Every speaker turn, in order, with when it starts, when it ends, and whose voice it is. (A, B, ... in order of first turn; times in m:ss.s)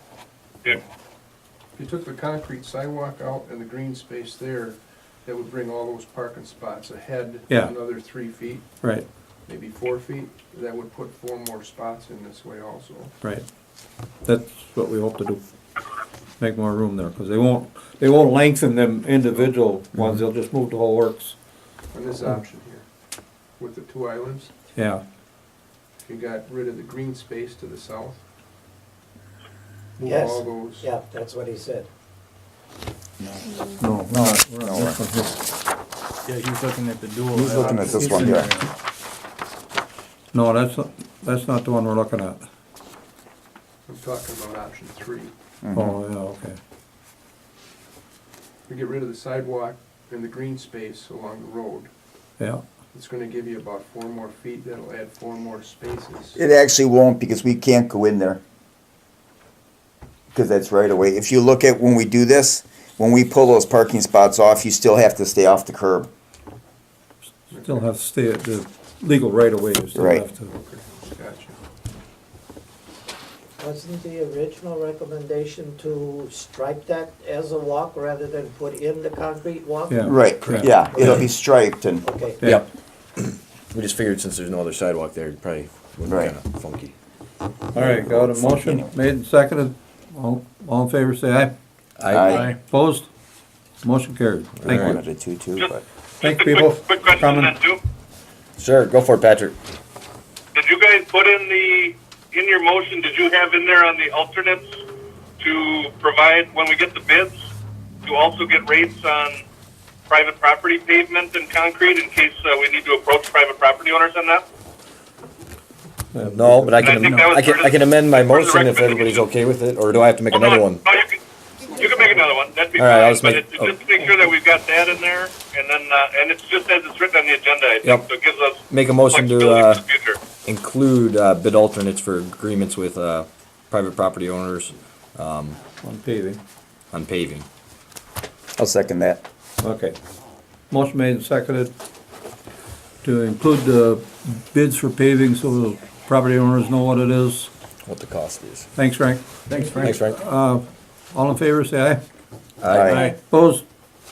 0:01.8-0:08.7 A
0:07.5-0:07.7 B
0:08.8-0:09.1 B
0:09.4-0:13.2 A
0:13.2-0:13.5 B
0:14.2-0:15.4 B
0:16.4-0:21.4 B
0:21.9-0:22.9 A
0:23.6-0:24.5 A
0:24.8-0:25.0 B
0:26.0-0:28.2 A
0:30.0-0:30.9 A
0:30.0-0:31.9 C
0:33.2-0:35.0 D
0:33.8-0:35.4 B
0:36.2-0:38.7 E
0:37.3-0:38.7 B
0:37.5-0:38.6 D
0:40.3-0:42.4 B
0:43.9-0:45.3 A
0:45.6-0:46.0 D
0:45.8-0:46.6 B
0:48.7-0:51.9 A
0:52.9-0:56.4 A
0:56.4-0:58.4 D
1:00.3-1:06.1 D
1:07.5-1:07.9 A
1:07.5-1:10.5 B
1:09.9-1:10.2 D
1:10.5-1:11.6 A
1:13.6-1:20.3 C
1:19.9-1:21.1 B
1:20.1-1:22.0 D
1:20.4-1:20.7 E
1:20.9-1:21.3 C
1:22.0-1:22.4 C
1:22.4-1:26.9 F
1:26.1-1:26.3 D
1:27.7-1:28.9 D
1:27.7-1:31.5 B
1:32.0-1:32.5 F
1:32.1-1:32.5 D
1:32.6-1:33.1 B
1:33.8-1:35.0 B
1:34.6-1:35.0 F
1:34.7-1:35.8 D
1:36.2-1:37.6 B
1:36.2-1:37.8 G
1:38.6-1:39.6 F
1:40.5-1:44.7 G
1:45.4-1:47.4 G
1:48.0-1:49.4 G
1:50.1-1:54.4 G
1:56.1-1:57.0 B
1:56.3-2:00.8 F
1:56.8-1:59.2 G
2:00.3-2:01.2 G
2:01.7-2:10.2 G
2:01.7-2:02.3 A
2:02.8-2:03.8 F
2:07.8-2:08.1 F
2:08.7-2:09.8 F
2:10.4-2:15.6 F
2:15.8-2:16.4 B
2:16.9-2:17.4 F
2:18.6-2:19.2 D
2:19.6-2:20.0 B
2:20.7-2:21.7 B
2:23.0-2:27.5 B
2:27.8-2:28.7 F
2:28.8-2:32.0 B
2:29.4-2:30.0 E
2:29.7-2:30.2 F
2:32.6-2:32.9 F
2:32.7-2:33.1 D
2:32.9-2:33.6 B